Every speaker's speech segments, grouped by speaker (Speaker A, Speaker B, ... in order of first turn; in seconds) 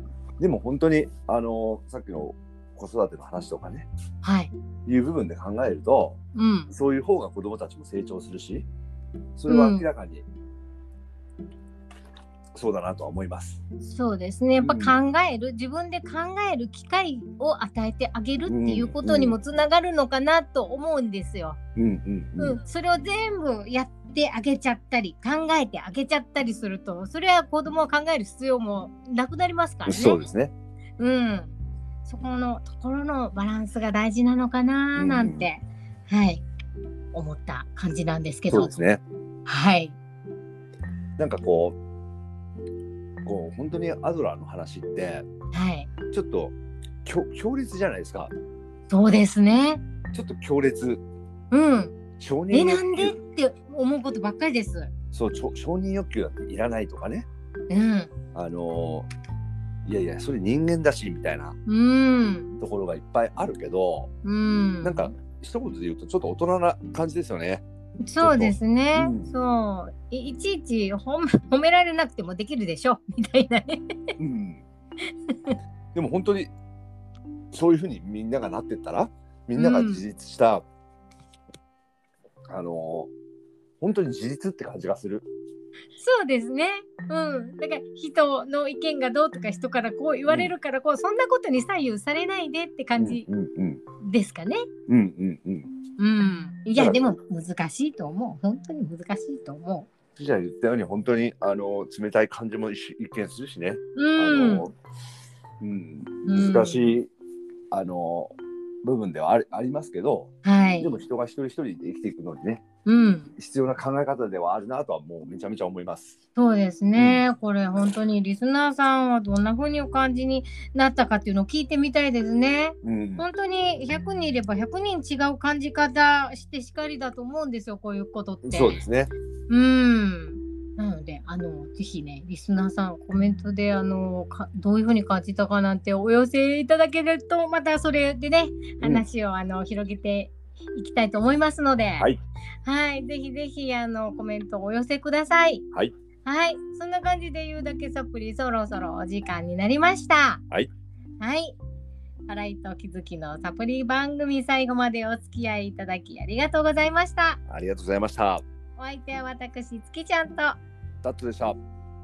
Speaker A: 0.4-3.9, 4.8-6.2, 6.7-8.7, 9.3-10.2, 12.5-13.6, 14.6-15.0, 18.5-19.4, 21.8-22.6, 29.9-30.5, 34.9-35.5, 38.5-39.0, 41.2-41.8, 43.2-45.2, 46.1-46.5, 47.0-48.3, 50.1-51.0, 52.2-53.2, 55.1-57.3, 58.3-59.1, 59.8-61.5, 62.6-64.1, 64.8-67.6, 68.2-69.3, 74.2-74.6, 75.9-76.5, 77.5-80.6, 82.5-83.1, 83.8-85.3, 90.3-90.5, 93.0-93.8, 94.9-95.7, 96.7-97.0, 100.2-104.7, 105.6-107.1, 107.7-112.6, 113.4-116.2, 117.0-117.2, 122.8-123.2, 128.4-129.1, 157.5-158.4, 161.0-161.6
Speaker B: 4.2-4.5, 6.3-6.7, 9.5-9.8, 13.8-21.6, 22.4-30.2, 31.0-36.4, 37.1-38.7, 39.5-40.0, 45.5-45.9, 48.9-49.8, 51.5-52.0, 52.5-54.9, 57.7-58.1, 61.6-62.6, 64.2-65.1, 68.0-74.0, 75.3-75.5, 79.6-80.0, 86.0-93.3, 94.0-94.7, 96.0-99.9, 104.0-104.7, 106.2-106.9, 110.4-110.9, 112.8-113.3, 116.3-128.8, 129.5-142.1, 142.6-145.6, 146.2-150.4, 151.2-151.6, 152.3-157.4, 158.8-160.6